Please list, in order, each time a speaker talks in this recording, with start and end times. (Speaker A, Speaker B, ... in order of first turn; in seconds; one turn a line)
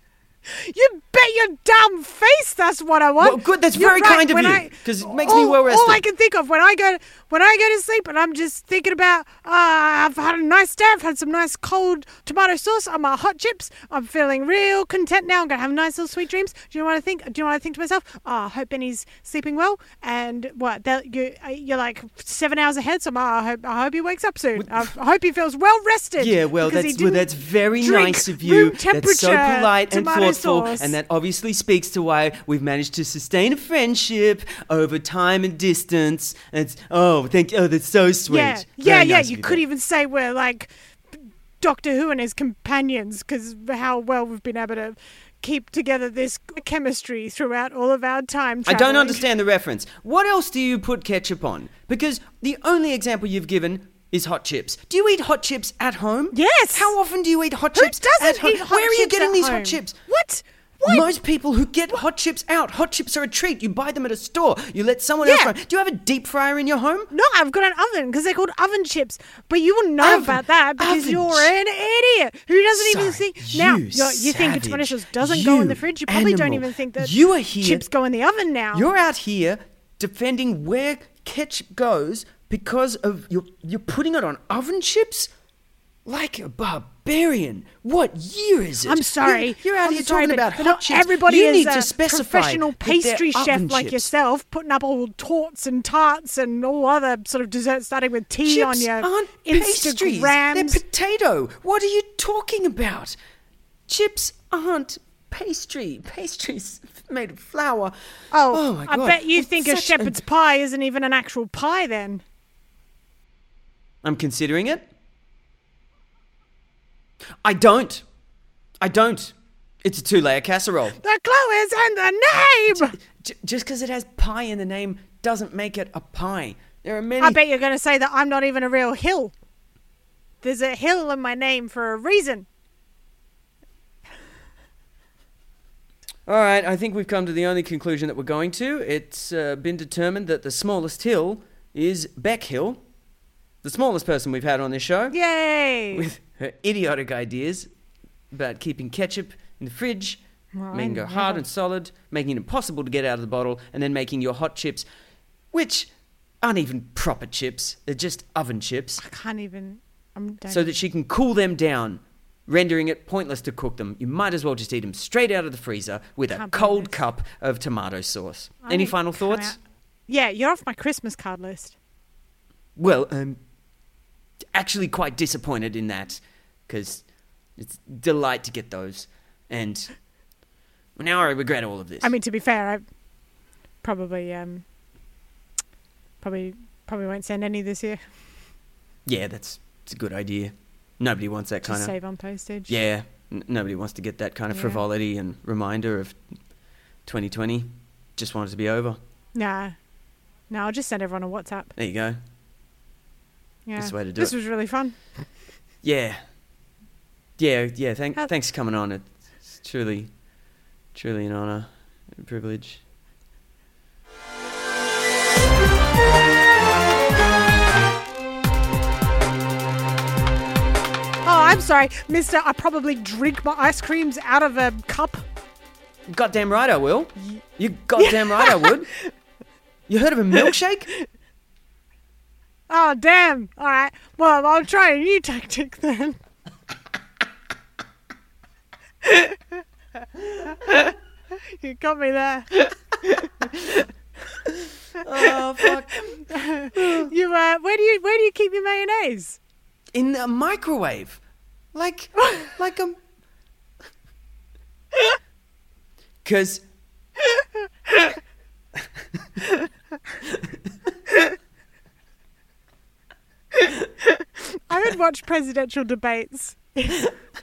Speaker A: 0.5-30.9
Speaker B: 3.2-6.0
Speaker B: 24.6-24.9
Speaker B: 26.2-39.6
Speaker A: 38.3-49.2
Speaker B: 48.6-60.0
Speaker A: 56.3-56.9
Speaker A: 57.7-61.1
Speaker B: 60.9-67.1
Speaker A: 65.2-65.5
Speaker A: 67.1-78.9
Speaker B: 70.0-71.5
Speaker B: 72.8-77.8
Speaker B: 78.7-85.3
Speaker B: 86.1-94.1
Speaker A: 88.8-100.8
Speaker B: 98.5-103.2
Speaker B: 103.9-107.9
Speaker A: 108.3-112.2
Speaker B: 108.5-110.2
Speaker B: 114.0-114.8
Speaker B: 117.4-118.0
Speaker B: 118.8-121.0
Speaker A: 121.0-123.0
Speaker B: 122.7-127.4
Speaker A: 127.2-129.3
Speaker A: 130.4-132.5
Speaker B: 136.3-142.8
Speaker B: 143.6-145.2
Speaker A: 145.1-146.1
Speaker B: 145.9-147.7
Speaker B: 148.3-150.2
Speaker A: 150.6-151.4
Speaker B: 150.7-154.9
Speaker B: 155.5-155.9
Speaker B: 156.4-159.0
Speaker A: 159.0-160.7
Speaker B: 160.5-169.6
Speaker A: 166.3-167.0
Speaker A: 168.6-171.8
Speaker B: 172.8-173.4
Speaker B: 174.5-177.1
Speaker B: 177.6-179.9
Speaker B: 181.0-182.1
Speaker A: 182.0-182.8
Speaker A: 183.8-184.7
Speaker A: 186.2-188.0
Speaker B: 189.1-191.9
Speaker A: 191.7-192.8
Speaker B: 192.7-196.2
Speaker A: 194.5-194.8
Speaker B: 197.1-199.0
Speaker A: 199.3-199.8
Speaker A: 200.5-201.7
Speaker B: 201.8-202.2
Speaker A: 203.7-205.0
Speaker B: 203.8-204.3
Speaker B: 205.8-206.2
Speaker B: 207.4-210.1
Speaker B: 210.9-212.8
Speaker A: 221.2-225.2
Speaker B: 226.1-228.9
Speaker A: 228.0-228.8
Speaker B: 229.9-230.9
Speaker A: 232.7-236.2
Speaker A: 239.1-239.4
Speaker A: 240.3-240.9
Speaker A: 241.5-243.9
Speaker B: 245.0-246.1
Speaker A: 245.2-249.4
Speaker B: 246.7-247.1
Speaker B: 249.9-251.2
Speaker B: 251.7-253.0
Speaker B: 256.2-256.6
Speaker A: 263.7-267.1